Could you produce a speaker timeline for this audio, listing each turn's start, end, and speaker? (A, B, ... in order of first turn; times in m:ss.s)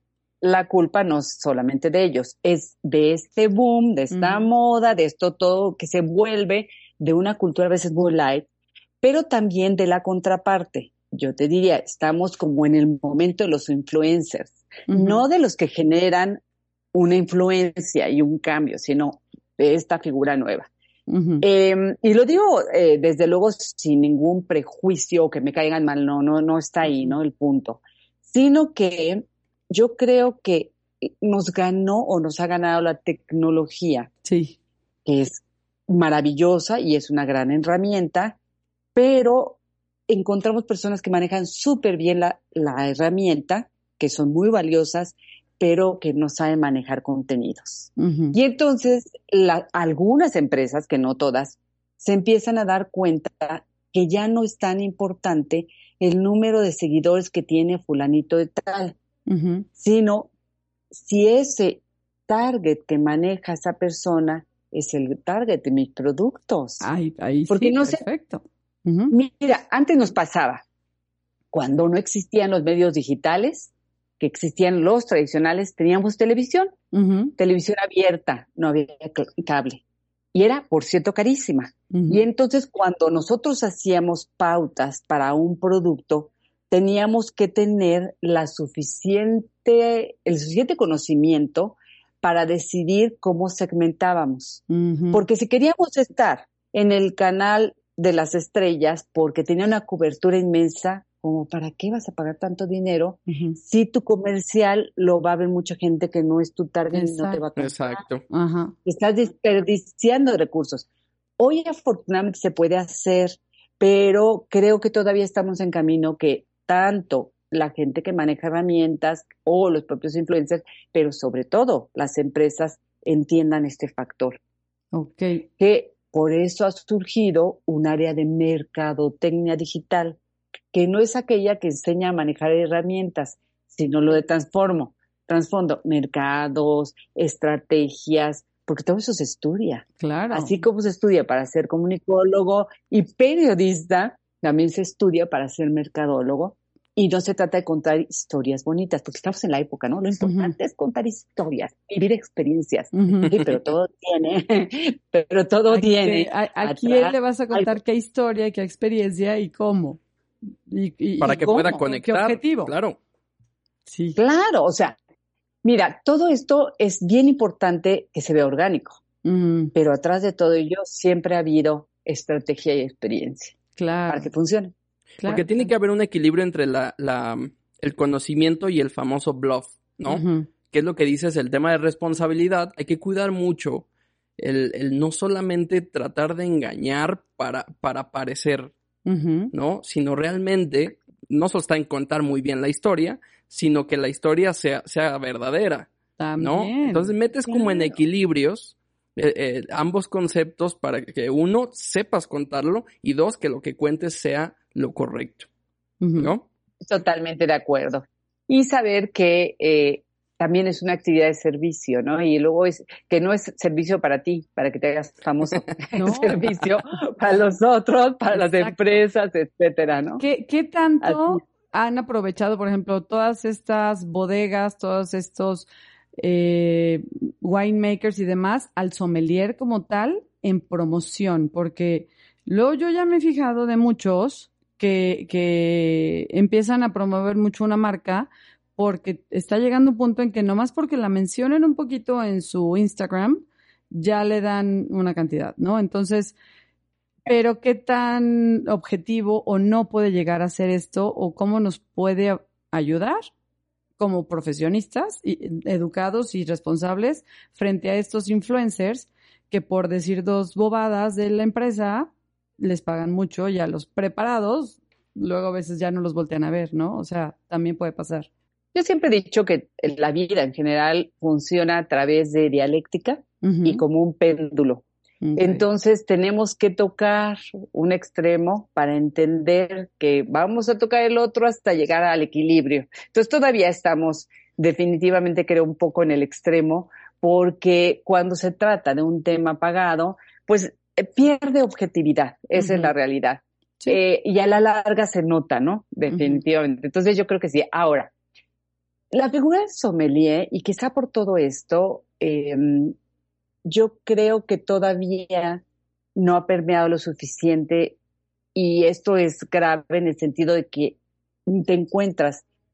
0:00.4-0:08.5 A
0:04.1-0:04.4 B
0:09.0-0:16.4 A
0:14.9-0:15.2 B
0:16.9-0:20.7 A
0:21.1-0:21.4 B
0:21.4-0:34.1 A
0:34.2-0:34.6 B
0:35.0-0:38.4 A
0:39.0-0:59.0 A
0:48.0-0:48.4 B
0:59.3-0:59.7 B
0:59.8-1:00.3 A
1:00.9-1:06.9 A
1:06.8-1:09.1 B
1:07.5-1:08.0 A
1:09.1-1:10.6 A
1:11.5-1:16.7 A
1:16.9-1:17.3 B
1:17.4-1:19.8 A
1:20.3-1:48.0 A
1:21.9-1:22.2 B
1:34.7-1:35.2 B
1:43.3-1:43.6 B
1:46.9-1:47.4 B
1:47.6-1:48.2 C
1:48.3-1:48.7 B
1:48.9-1:50.9 A
1:51.4-2:04.4 A
2:04.9-2:05.4 B
2:05.6-2:10.2 A
2:10.7-2:37.8 A
2:20.0-2:20.6 B
2:30.2-2:30.5 B
2:32.9-2:33.4 B
2:35.7-2:40.0 B
2:40.7-2:42.7 B
2:41.2-2:43.0 C
2:43.9-2:44.2 B
2:44.2-2:45.0 A
2:45.6-2:49.0 A
2:49.2-2:49.7 B
2:49.7-2:53.6 A
2:53.8-2:54.3 B
2:54.1-2:54.7 A
2:55.2-2:55.7 B
2:55.2-3:03.9 C
3:00.1-3:00.5 B
3:04.4-3:08.7 C
3:09.1-3:09.5 B
3:09.5-3:15.9 C
3:16.2-3:17.1 B
3:16.4-3:25.5 C
3:17.5-3:18.0 A
3:26.0-3:26.3 B
3:26.2-3:26.4 C
3:26.8-3:40.2 A
3:36.0-3:36.4 B
3:38.3-3:38.8 B
3:40.2-4:06.4 B
3:41.0-3:41.4 A
4:07.3-4:13.2 B
4:14.0-4:28.3 B
4:28.7-4:34.8 A
4:33.4-4:33.8 B
4:35.2-4:35.6 B
4:35.4-4:58.1 A
4:52.6-4:52.9 B
4:56.1-4:56.4 B
4:59.1-5:03.0 A
5:03.6-5:05.6 A
5:06.2-5:08.0 A
5:08.6-5:12.4 A